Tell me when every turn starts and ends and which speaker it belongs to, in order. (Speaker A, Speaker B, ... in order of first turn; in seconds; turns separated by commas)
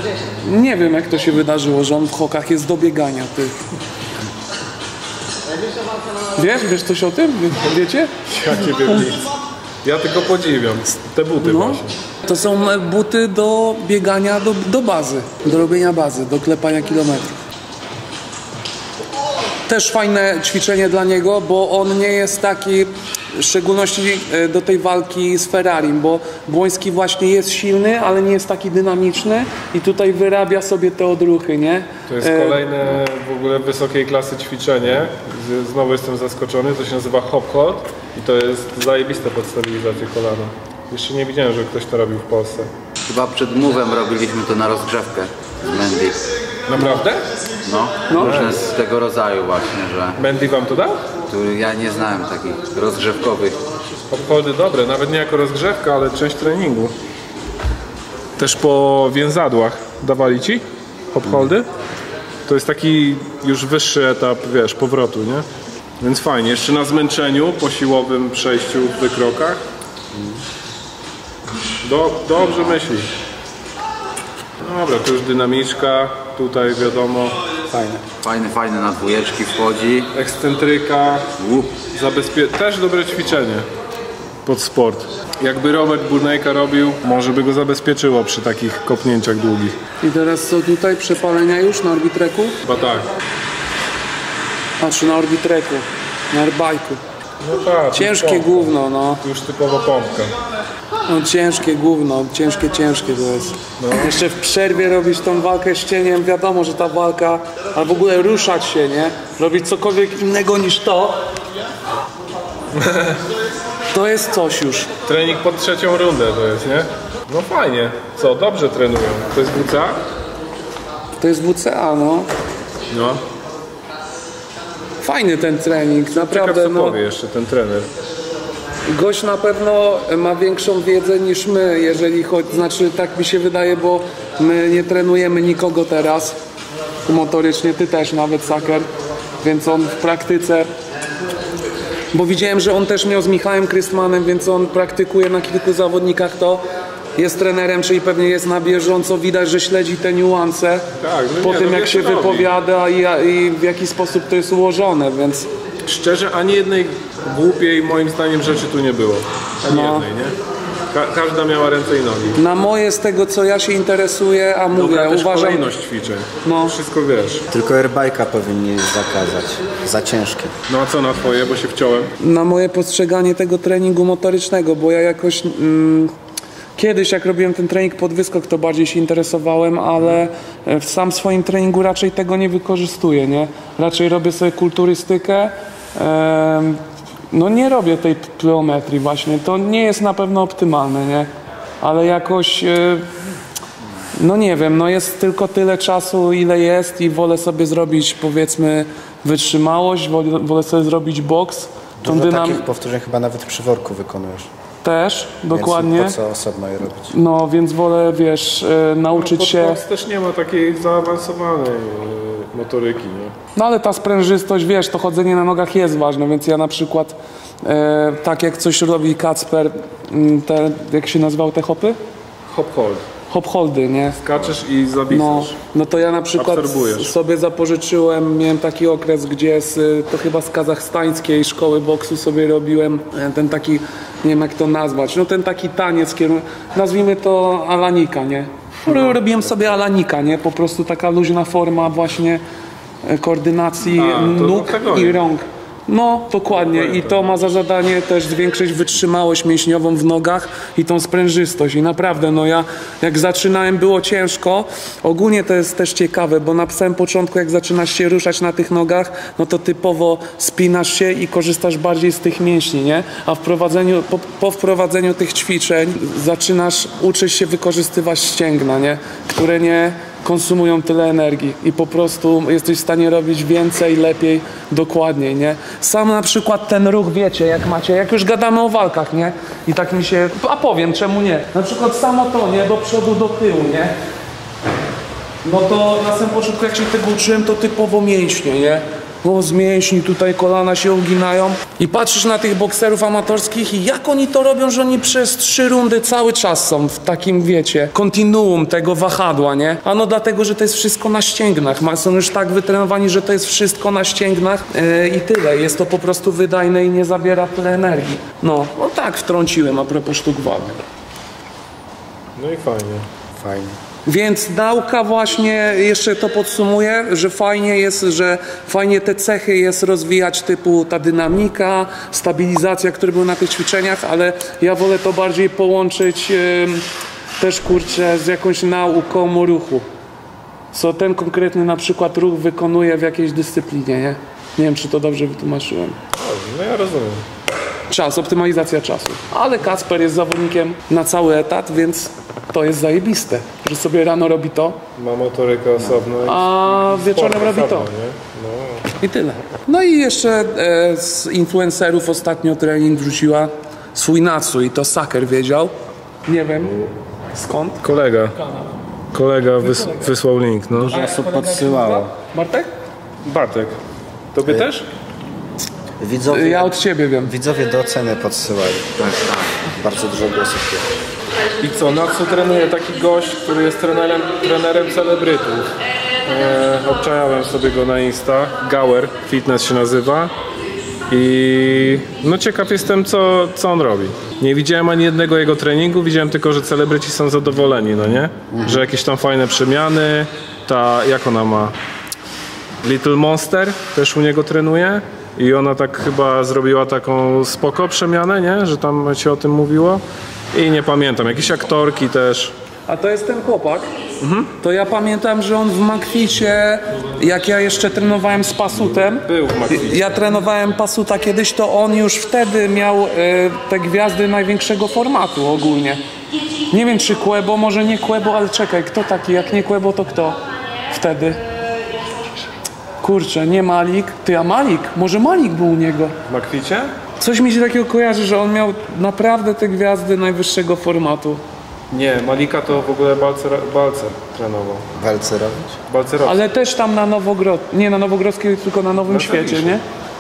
Speaker A: 0.4-3.6, Speaker A: 6.4-8.1, Speaker B: 8.3-9.3, Speaker B: 9.8-11.9, Speaker A: 11.4-17.4, Speaker A: 19.7-32.7, Speaker B: 32.1-42.7, Speaker C: 43.1-46.2, Speaker B: 46.7-47.2, Speaker C: 47.6-50.2, Speaker A: 48.1-48.4, Speaker B: 48.1-48.6, Speaker B: 50.2-51.0, Speaker C: 51.3-53.6, Speaker B: 54.1-56.9, Speaker B: 58.4-61.7, Speaker B: 62.5-65.5, Speaker B: 66.0-69.6, Speaker D: 70.1-70.4, Speaker B: 71.8-73.1, Speaker B: 74.6-77.4, Speaker D: 77.7-78.0, Speaker C: 78.2-80.1, Speaker B: 80.1-83.7, Speaker C: 81.4-81.7, Speaker B: 84.5-89.8, Speaker A: 90.0-92.6, Speaker B: 92.6-93.1, Speaker A: 94.8-97.0, Speaker B: 97.4-100.3, Speaker A: 97.9-99.2, Speaker A: 101.1-111.2, Speaker B: 103.8-104.2, Speaker B: 112.8-113.2, Speaker A: 113.9-114.9, Speaker B: 115.1-120.0, Speaker A: 121.2-122.3, Speaker B: 122.9-123.2, Speaker A: 125.0-127.0, Speaker B: 126.1-127.9, Speaker A: 128.9-136.4, Speaker A: 137.1-138.9, Speaker A: 139.4-140.7, Speaker A: 142.1-146.6, Speaker A: 147.2-150.9, Speaker B: 151.0-152.5, Speaker A: 151.4-155.5, Speaker B: 155.8-160.4, Speaker A: 159.7-160.1, Speaker B: 160.9-162.4, Speaker A: 162.4-165.7, Speaker B: 164.7-167.4, Speaker A: 166.4-166.8, Speaker D: 167.5-170.5, Speaker B: 170.7-172.1, Speaker A: 172.2-176.1, Speaker A: 176.8-191.3, Speaker A: 191.8-193.1, Speaker A: 194.2-202.6, Speaker D: 202.0-204.5, Speaker A: 204.8-206.2, Speaker D: 205.5-207.1, Speaker A: 207.1-209.8, Speaker B: 209.2-213.3, Speaker A: 213.6-222.0, Speaker B: 222.5-223.1, Speaker A: 223.3-224.2, Speaker B: 224.2-225.6, Speaker A: 225.1-242.4, Speaker B: 226.3-227.1, Speaker B: 238.9-239.2, Speaker A: 243.0-283.9, Speaker B: 243.9-245.2, Speaker B: 246.5-247.4, Speaker A: 285.4-310.8, Speaker B: 312.4-313.1, Speaker D: 313.4-313.8, Speaker A: 314.1-326.9, Speaker A: 327.4-329.9, Speaker A: 330.7-336.0, Speaker B: 336.1-337.3, Speaker A: 337.9-344.8, Speaker B: 345.0-348.9, Speaker A: 346.2-347.9, Speaker A: 349.0-355.7, Speaker A: 356.3-358.7, Speaker B: 357.8-358.4, Speaker B: 359.1-360.9, Speaker A: 359.6-360.1, Speaker D: 360.8-362.1, Speaker A: 360.9-362.7, Speaker B: 363.2-363.8, Speaker B: 364.3-364.9, Speaker D: 366.0-369.1, Speaker A: 366.3-367.4, Speaker C: 369.0-369.7, Speaker D: 369.7-370.9, Speaker B: 371.6-375.7, Speaker B: 376.2-380.3, Speaker B: 381.1-391.8, Speaker B: 392.8-402.5, Speaker A: 402.9-403.9, Speaker B: 404.2-404.5, Speaker A: 404.6-416.0, Speaker B: 409.1-410.3, Speaker A: 416.7-421.4, Speaker A: 423.0-426.1, Speaker B: 426.3-426.9, Speaker A: 427.2-431.4, Speaker B: 431.9-434.9, Speaker D: 434.9-435.8, Speaker B: 435.9-436.4, Speaker A: 436.2-439.8, Speaker B: 439.1-439.8